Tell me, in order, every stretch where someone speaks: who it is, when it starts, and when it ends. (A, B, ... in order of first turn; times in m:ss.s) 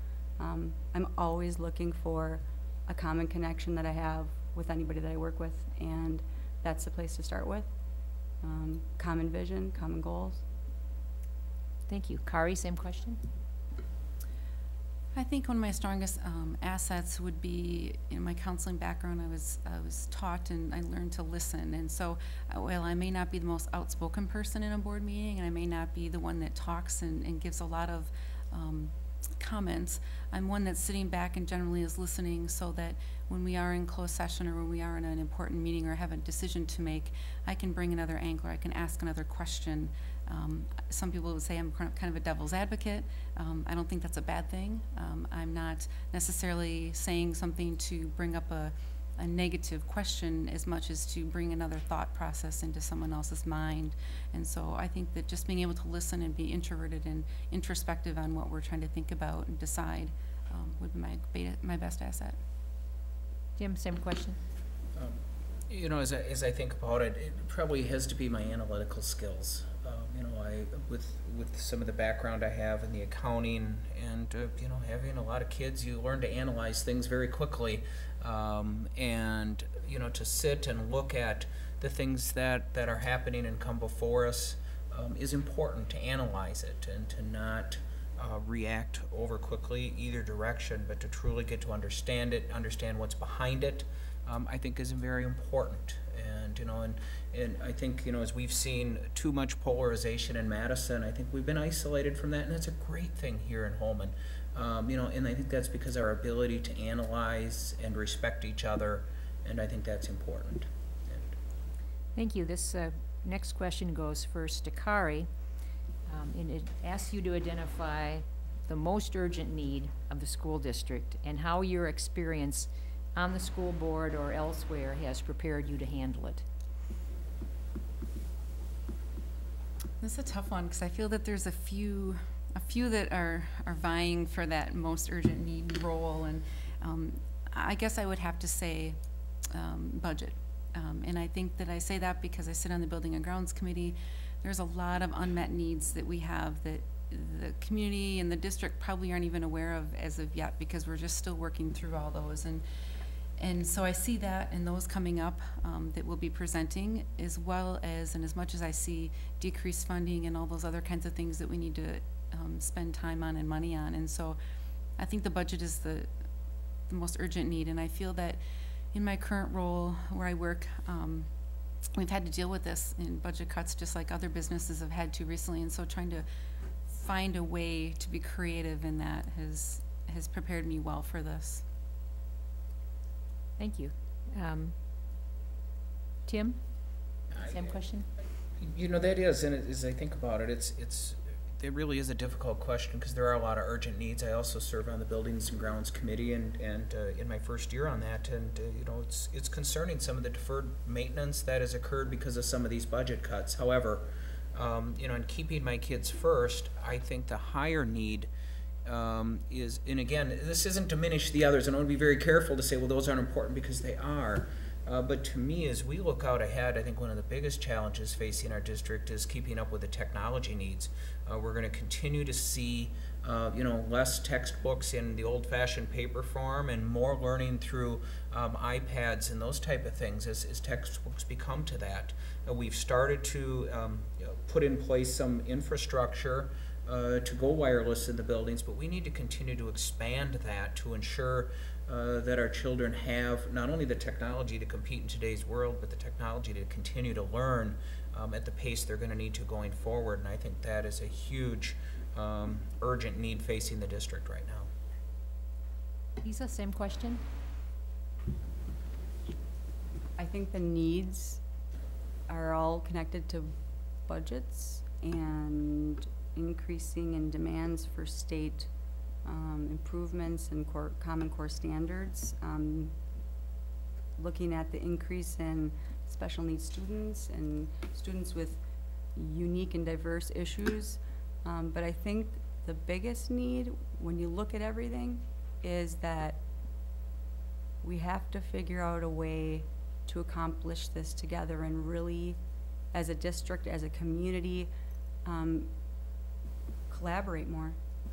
0:00.4-0:07.7 A
0:08.4-0:10.4 A
0:11.9-0:13.2 B
0:15.2-1:02.4 C
1:03.6-1:04.4 B
1:05.0-1:51.3 D
1:52.2-1:55.3 B
1:56.1-2:06.4 B
2:10.0-2:19.0 C
2:19.5-2:32.6 C
2:33.4-2:44.4 C
2:45.0-2:46.1 C
2:46.9-2:48.4 C
2:48.9-2:51.3 C
2:51.9-2:56.2 C
2:56.9-3:01.6 C
3:03.6-3:04.8 B
3:06.3-3:06.6 B
3:07.4-3:08.1 B
3:08.6-3:28.3 D
3:28.8-4:14.7 D
4:16.2-4:17.2 B
4:20.2-4:21.4 A
4:22.3-4:23.6 A
4:24.1-4:28.7 A
4:29.2-4:33.0 A
4:34.2-4:38.6 A
4:39.2-4:46.4 A
4:47.8-4:52.4 A
4:52.9-4:54.7 A
4:55.2-4:55.7 A
4:56.9-4:57.8 A